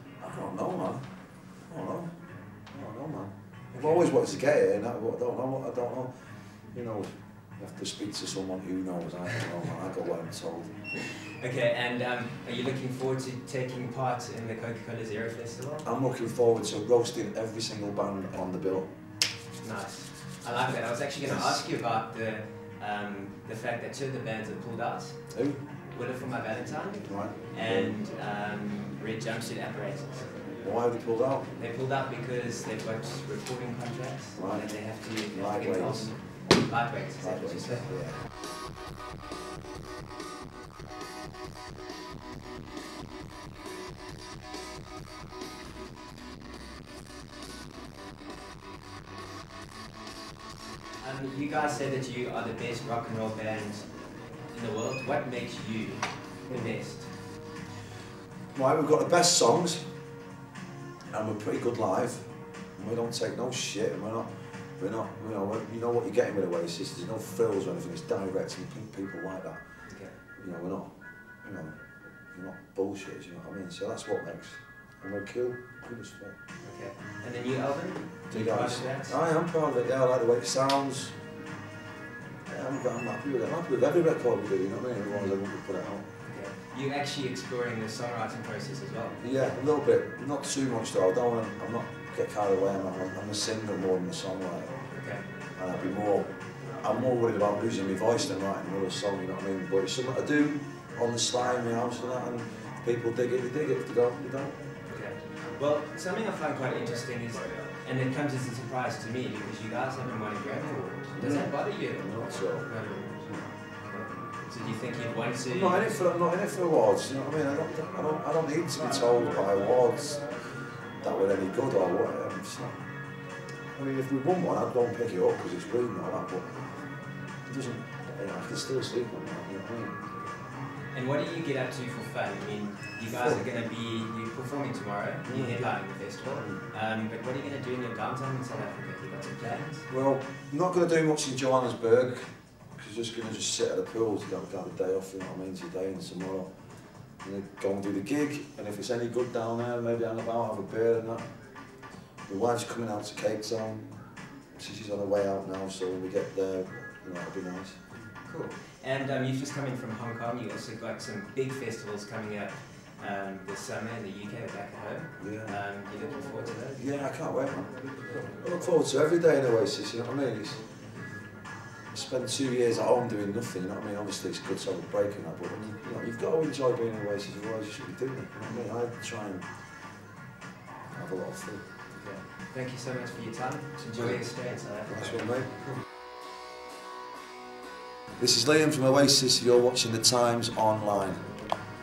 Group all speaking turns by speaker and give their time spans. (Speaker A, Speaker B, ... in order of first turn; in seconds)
Speaker A: 0.2-10.7, 15.8-18.9, 21.2-21.6, 25.3-25.6, 27.0-28.0, 30.6-31.5, 34.4-36.6, 37.2-38.2, 58.5-59.9, 61.1-69.6, 70.4-76.4, 78.3-81.2, 82.5-86.1, 89.2-94.9, 95.6-104.6, 111.1-113.5, 115.5-122.8, 123.8-130.0, 133.1-133.4, 135.2-136.6, 139.9-146.5, 147.2-151.2, 152.3-153.9, 154.6-157.8, 165.2-165.6, 166.8-170.6, 171.9-179.5, 180.9-181.7, 183.8-184.2, 184.9-185.6, 188.2-191.3
Speaker B: 3.7-4.1, 11.2-15.9, 19.6-30.5, 31.6-38.0, 51.0-57.2, 69.9-70.2, 76.6-79.2, 85.1-85.4, 86.2-89.2, 95.0-95.3, 104.9-116.0, 130.2-139.9, 158.2-166.9, 181.9-185.8